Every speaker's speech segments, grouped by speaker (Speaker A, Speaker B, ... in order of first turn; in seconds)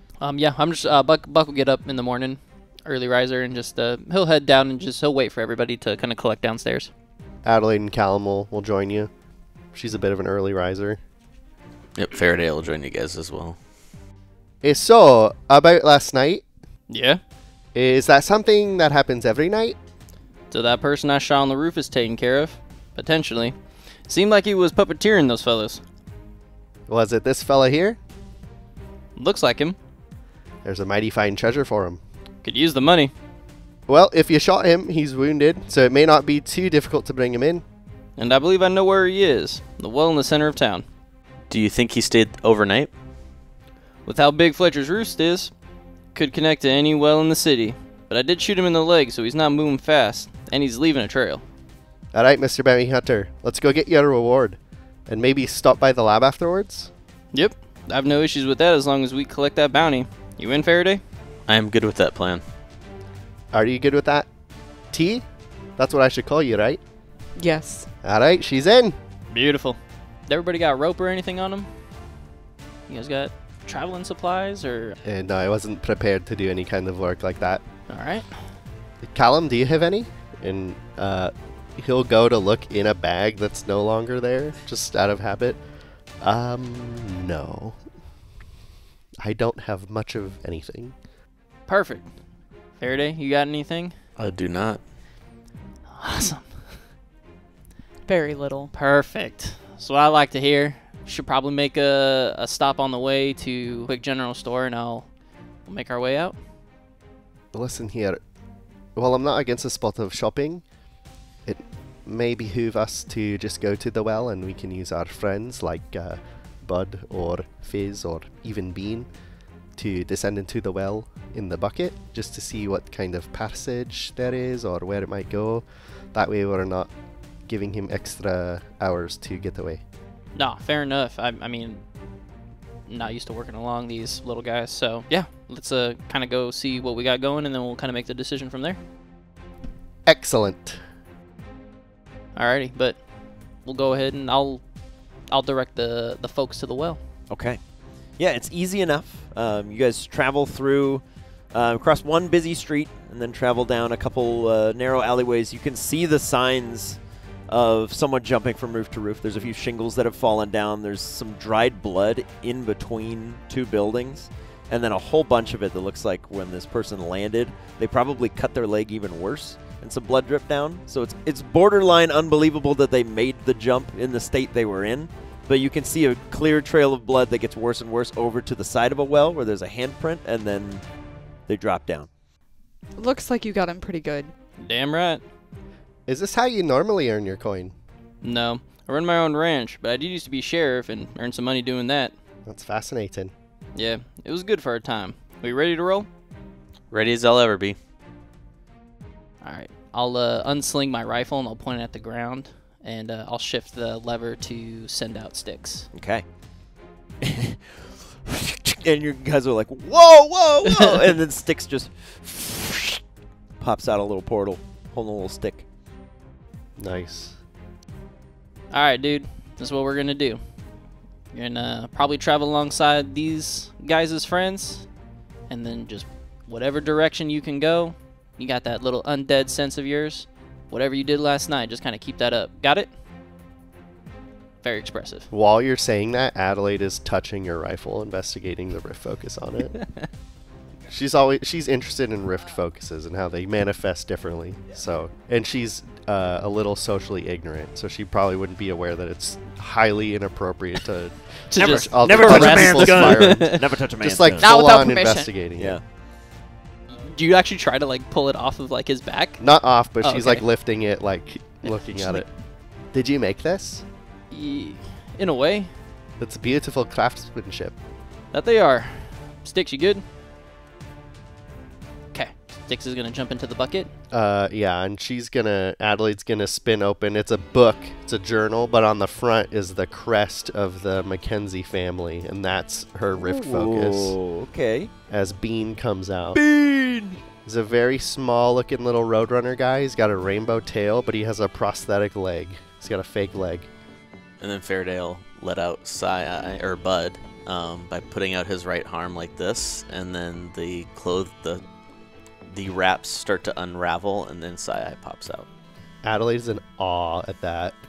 Speaker A: 0.2-6.9, 16.9-17.2, 20.5-25.8, 29.1-29.8, 32.4-33.1, 38.2-40.9, 44.0-45.5, 46.1-51.4, 57.3-61.0, 69.3-71.7, 72.9-75.0, 77.9-78.5, 91.7-94.0, 95.9-96.8, 98.7-106.3, 130.3-131.9, 132.8-138.8, 142.3-147.0, 184.6-185.2, 188.2-192.1, 193.7-196.1, 199.4-205.9, 218.7-224.9, 225.5-232.9, 234.6-235.3, 251.5-253.7, 256.9-260.4, 261.6-262.2, 264.3-265.7, 268.3-270.0, 272.1-273.9
Speaker B: 7.4-9.1, 9.7-11.0, 14.6-16.4, 17.7-19.8, 26.9-28.0, 30.6-32.0, 33.9-37.6, 52.1-56.9, 63.5-64.3, 64.9-66.8, 68.0-69.0, 75.0-77.6, 79.0-85.6, 86.2-87.8, 89.2-90.9, 107.5-108.2, 108.9-110.7, 111.4-119.1, 119.7-129.8, 140.0-140.8, 186.1-187.7, 192.4-193.3, 216.8-217.4, 235.3-240.1, 240.9-255.8, 259.4-263.8, 266.2-267.8, 274.1-284.2, 285.1-286.4, 287.4-293.7, 306.0-307.8
Speaker C: 11.9-13.6, 41.5-42.9, 61.5-62.4, 94.2-94.9, 196.9-197.8, 294.4-301.6, 302.5-305.4
Speaker D: 67.3-67.9, 98.0-98.7, 182.9-184.3, 254.4-255.3
Speaker E: 147.3-182.1, 205.9-213.0, 213.6-215.6, 251.5-254.5, 255.6-255.8, 283.2-284.9, 286.3-287.2